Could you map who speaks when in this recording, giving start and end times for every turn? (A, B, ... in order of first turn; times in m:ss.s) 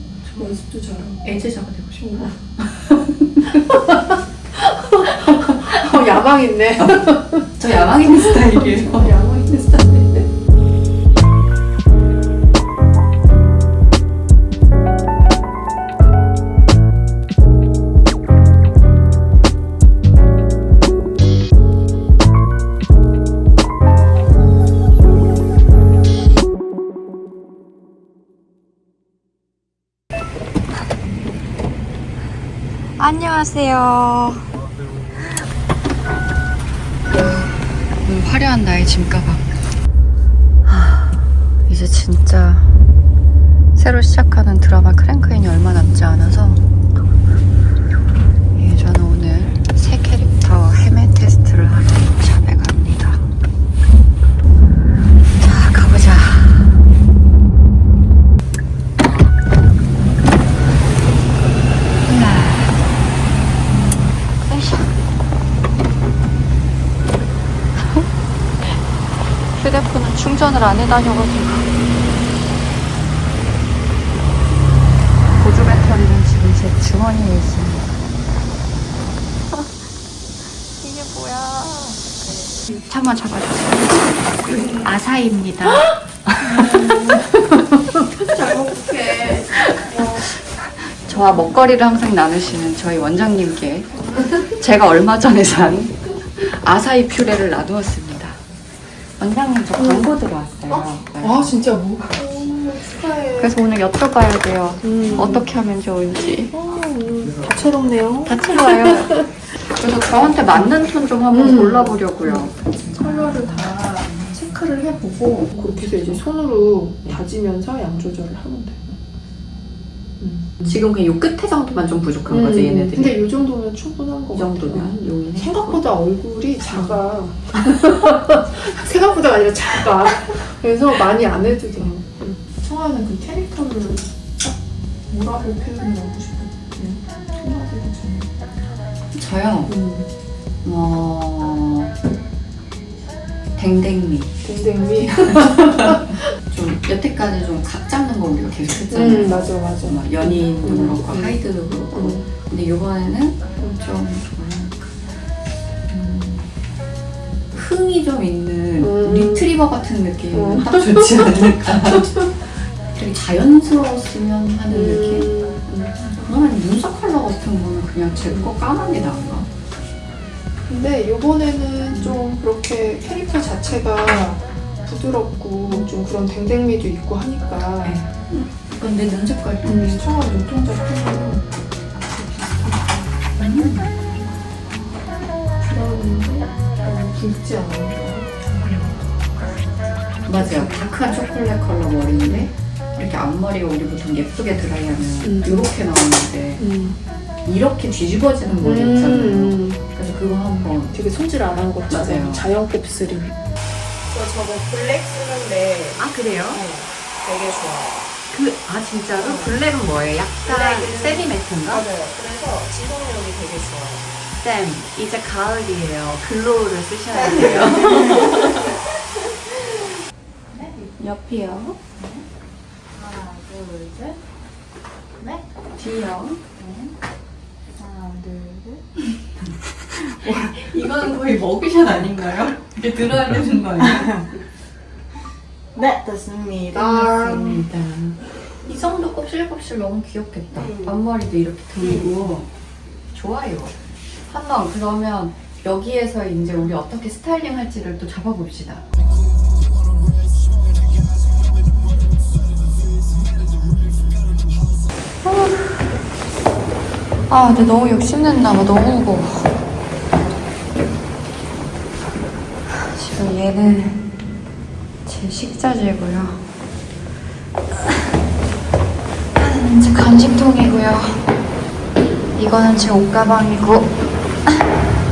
0:00.2-0:00.5 A
0:00.3-0:01.4 B
0:01.2-0:03.8 A
0:02.0-0:02.4 B
0:03.4-0:10.2 B
0:05.1-0:05.9 A
0:07.6-0:09.2 A
0:33.0-0:34.5 A
0:37.2-0:37.4 A
0:38.0-0:39.5 A
0:40.7-0:42.8 A
0:43.8-0:46.6 A
0:48.6-0:53.3 A
0:55.4-0:56.8 A
1:02.0-1:02.8 A
1:04.3-1:05.0 A
1:09.6-1:11.7 A
1:15.4-1:17.9 A
1:20.8-1:22.0 A
1:22.9-1:38.4 A
1:26.4-1:27.3 B
1:28.2-1:30.3 B
1:34.1-1:34.4 B
1:39.2-1:41.6 A
1:39.8-1:40.2 B
1:40.7-1:43.6 B
1:43.4-1:46.5 A
1:44.8-1:45.5 B
1:46.5-1:49.3 B
1:48.2-1:56.2 A
1:50.0-1:50.7 B
1:51.3-1:54.4 B
1:55.5-1:59.0 B
2:00.2-2:00.7 B
2:00.6-2:03.2 A
2:02.3-2:14.1 B
2:04.3-2:05.8 A
2:15.1-2:18.4 B
2:19.1-2:19.8 A
2:19.7-2:20.1 B
2:20.6-2:21.9 A
2:23.6-2:24.4 A
2:24.4-2:26.3 B
2:25.0-2:34.9 A
2:28.9-2:31.4 B
2:31.9-2:32.3 B
2:35.9-2:36.5 A
2:37.5-2:42.3 A
2:38.8-2:39.5 B
2:40.3-2:42.3 B
2:42.9-2:45.3 A
2:44.7-2:46.1 B
2:46.1-2:49.5 A
2:50.7-2:58.0 B
2:51.9-2:52.2 A
2:57.8-3:00.1 A
2:59.6-3:01.5 B
3:02.0-3:03.1 B
3:03.4-3:03.9 A
3:05.6-3:09.0 B
3:10.3-3:16.6 A
3:10.4-3:10.8 B
3:15.2-3:15.7 B
3:16.6-3:17.0 B
3:17.5-3:21.0 A
3:18.6-3:19.8 B
3:20.9-3:23.4 B
3:21.9-3:22.5 A
3:24.1-3:28.1 C
3:26.0-3:26.6 A
3:28.3-3:31.8 A
3:29.2-3:29.6 C
3:30.4-3:34.1 C
3:34.4-3:38.7 A
3:37.1-3:38.8 C
3:40.5-3:40.9 C
3:41.0-3:41.8 A
3:42.0-3:42.2 C
3:42.9-3:44.2 C
3:45.2-3:45.4 C
3:45.8-3:46.4 A
3:46.6-3:46.9 C
3:47.8-3:48.8 C
3:50.0-3:54.3 A
3:55.8-3:57.6 C
3:56.7-4:02.5 A
4:00.5-4:01.0 C
4:01.8-4:02.2 C
4:03.1-4:03.8 A
4:04.3-4:08.8 A
4:15.2-4:15.8 A
4:17.3-4:19.5 A
4:22.7-4:24.0 A
4:25.1-4:26.4 A
4:29.4-4:31.2 A
4:32.4-4:33.9 A